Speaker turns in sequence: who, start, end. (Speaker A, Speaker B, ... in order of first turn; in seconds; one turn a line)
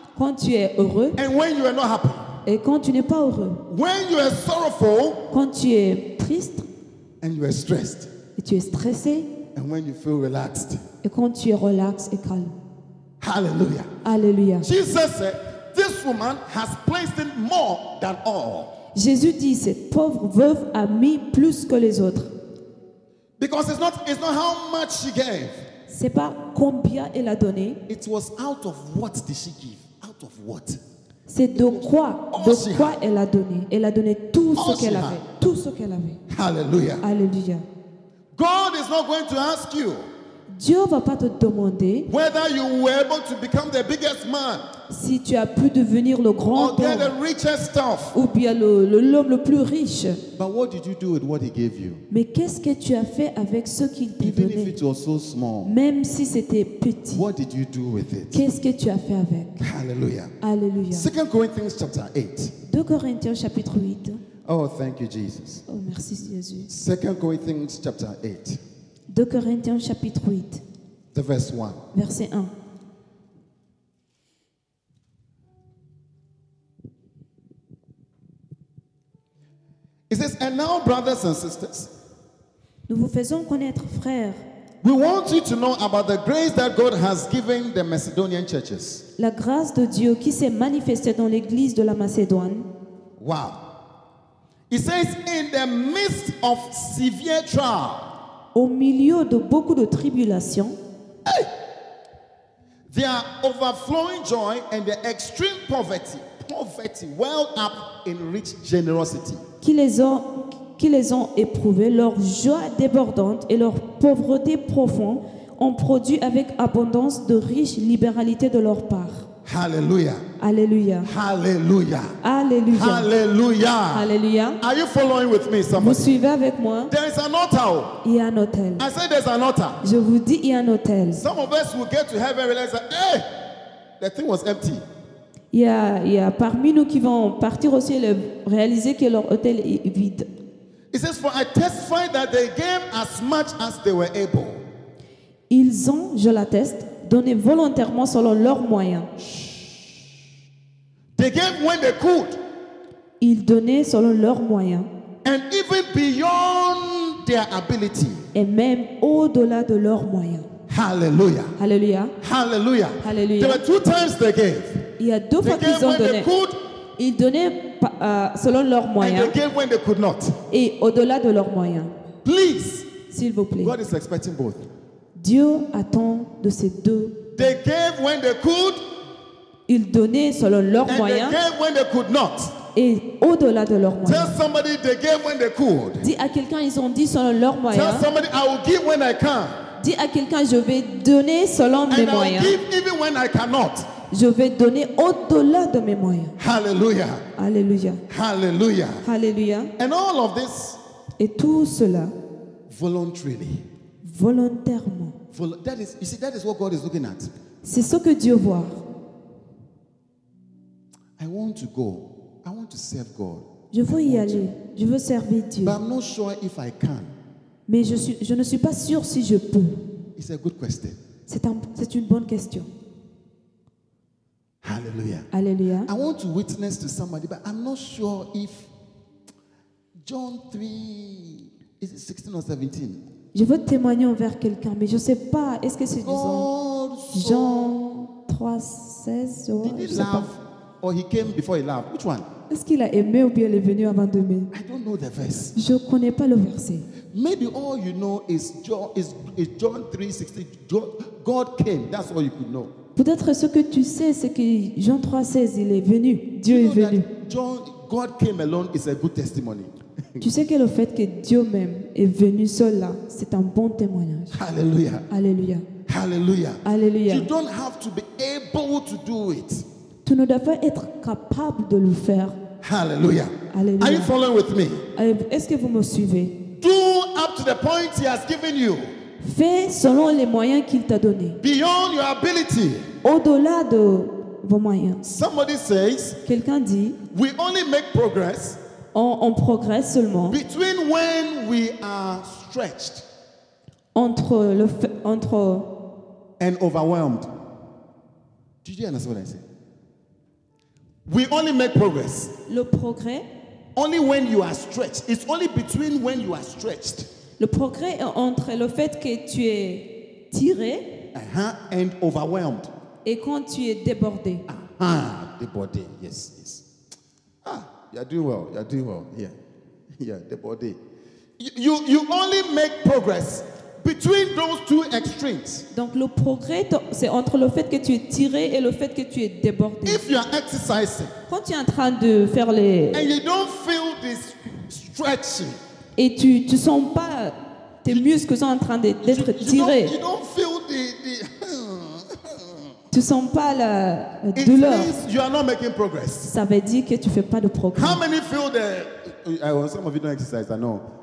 Speaker A: 0.2-1.2
Speaker B: 1.2-2.3
Speaker A: 2.5-3.6
Speaker B: 3.7-5.2
Speaker A: 5.3-6.7
Speaker B: 7.2-8.1
Speaker A: 8.4-9.3
Speaker B: 9.5-10.8
Speaker A: 11.0-12.6
Speaker B: 13.2-13.9
Speaker A: 14.0-14.7
Speaker B: 14.6-18.7
Speaker A: 18.9-22.3
Speaker B: 23.4-25.6
Speaker A: 25.9-27.8
Speaker B: 27.9-30.8
Speaker A: 31.3-36.2
Speaker B: 31.5-33.0
Speaker B: 34.6-35.2
Speaker B: 36.3-37.0
Speaker A: 37.0-37.6
Speaker B: 38.4-40.1
Speaker A: 40.5-42.1
Speaker B: 42.1-44.6
Speaker A: 44.9-47.1
Speaker B: 46.5-48.1
Speaker A: 48.1-50.2
Speaker B: 50.4-52.0
Speaker A: 52.1-54.8
Speaker B: 54.2-55.8
Speaker A: 55.6-57.2
Speaker B: 57.1-58.4
Speaker A: 58.3-59.7
Speaker B: 59.6-60.3
Speaker A: 60.4-61.1
Speaker B: 60.9-62.5
Speaker A: 62.7-64.2
Speaker B: 64.5-65.6
Speaker A: 65.7-66.7
Speaker B: 66.7-68.6
Speaker A: 69.1-70.6
Speaker B: 71.1-71.8
Speaker A: 71.9-72.5
Speaker B: 80.1-81.9
Speaker A: 82.9-84.4
Speaker B: 84.8-89.0
Speaker A: 89.2-92.7
Speaker B: 93.2-93.6
Speaker B: 94.7-98.0
Speaker A: 98.5-100.8
Speaker B: 102.9-109.4
Speaker A: 109.6-119.3
Speaker B: 119.5-120.2
Speaker A: 120.4-121.1
Speaker B: 121.0-122.2
Speaker A: 122.2-123.1
Speaker B: 122.7-126.1
Speaker A: 123.9-124.6
Speaker A: 125.8-126.9
Speaker B: 126.9-128.0
Speaker A: 128.0-128.9
Speaker B: 128.8-129.8
Speaker A: 129.8-131.2
Speaker B: 131.1-133.3
Speaker B: 134.0-134.9
Speaker A: 135.5-140.3
Speaker B: 140.9-144.6
Speaker A: 145.5-149.1
Speaker B: 149.2-150.1
Speaker B: 151.2-152.4
Speaker A: 153.2-154.9
Speaker B: 155.2-158.3
Speaker A: 158.3-160.5
Speaker B: 160.7-161.6
Speaker A: 161.6-162.1
Speaker B: 162.2-164.9
Speaker A: 163.0-163.6
Speaker A: 165.0-166.3
Speaker B: 165.4-166.6
Speaker A: 167.0-169.3
Speaker B: 169.0-170.4
Speaker A: 170.5-171.9
Speaker B: 172.2-172.9
Speaker A: 173.1-173.8
Speaker B: 173.6-174.7
Speaker A: 175.2-177.5
Speaker B: 177.4-178.8
Speaker A: 179.7-181.4
Speaker B: 180.9-182.6
Speaker A: 182.7-184.4
Speaker B: 184.1-186.1
Speaker A: 186.0-188.1
Speaker B: 187.7-189.6
Speaker A: 189.8-192.6
Speaker B: 191.9-193.9
Speaker A: 194.1-196.3
Speaker B: 196.4-197.2
Speaker A: 197.4-198.0
Speaker B: 198.1-199.1
Speaker A: 199.0-199.7
Speaker B: 199.8-200.8
Speaker A: 201.2-202.1
Speaker B: 202.7-203.7
Speaker A: 204.0-205.2
Speaker B: 205.3-207.3
Speaker A: 207.6-208.8
Speaker B: 211.2-214.5
Speaker A: 213.7-215.8
Speaker B: 215.6-217.1
Speaker A: 217.7-219.8
Speaker B: 220.2-221.0
Speaker A: 221.3-222.7
Speaker B: 224.6-225.3
Speaker A: 225.3-225.9
Speaker B: 225.9-228.7
Speaker B: 230.0-233.0
Speaker A: 233.3-236.5
Speaker B: 236.0-237.7
Speaker A: 237.1-240.3
Speaker B: 239.6-242.3
Speaker A: 242.5-244.5
Speaker B: 244.5-245.6
Speaker A: 245.6-246.9
Speaker B: 247.1-252.7
Speaker A: 253.0-257.1
Speaker B: 256.4-260.2
Speaker A: 260.2-264.3
Speaker B: 264.3-265.1
Speaker A: 265.1-265.7
Speaker B: 265.9-269.6
Speaker A: 266.6-267.3
Speaker A: 270.1-272.4
Speaker B: 272.6-274.9
Speaker A: 273.5-274.1
Speaker A: 275.0-276.4
Speaker B: 276.6-278.9
Speaker A: 279.2-281.4
Speaker B: 281.4-282.9
Speaker A: 283.0-285.0
Speaker B: 285.0-286.2
Speaker A: 286.2-287.0
Speaker B: 287.1-288.6
Speaker A: 288.9-290.4
Speaker B: 290.3-293.1
Speaker A: 293.9-295.7
Speaker B: 296.4-297.3
Speaker B: 298.6-299.4
Speaker B: 301.1-302.3
Speaker A: 302.5-303.2
Speaker B: 303.8-307.1
Speaker A: 307.4-310.9
Speaker B: 311.1-312.7
Speaker A: 313.1-314.4
Speaker B: 314.5-316.6
Speaker B: 317.4-319.4
Speaker B: 320.0-320.8
Speaker B: 321.4-325.7
Speaker A: 325.7-330.0
Speaker B: 329.9-331.1
Speaker A: 331.3-333.1
Speaker B: 332.9-335.6
Speaker A: 336.0-339.9
Speaker B: 339.0-342.7
Speaker A: 342.9-345.0
Speaker B: 344.4-346.3
Speaker A: 346.2-348.0
Speaker B: 347.7-350.8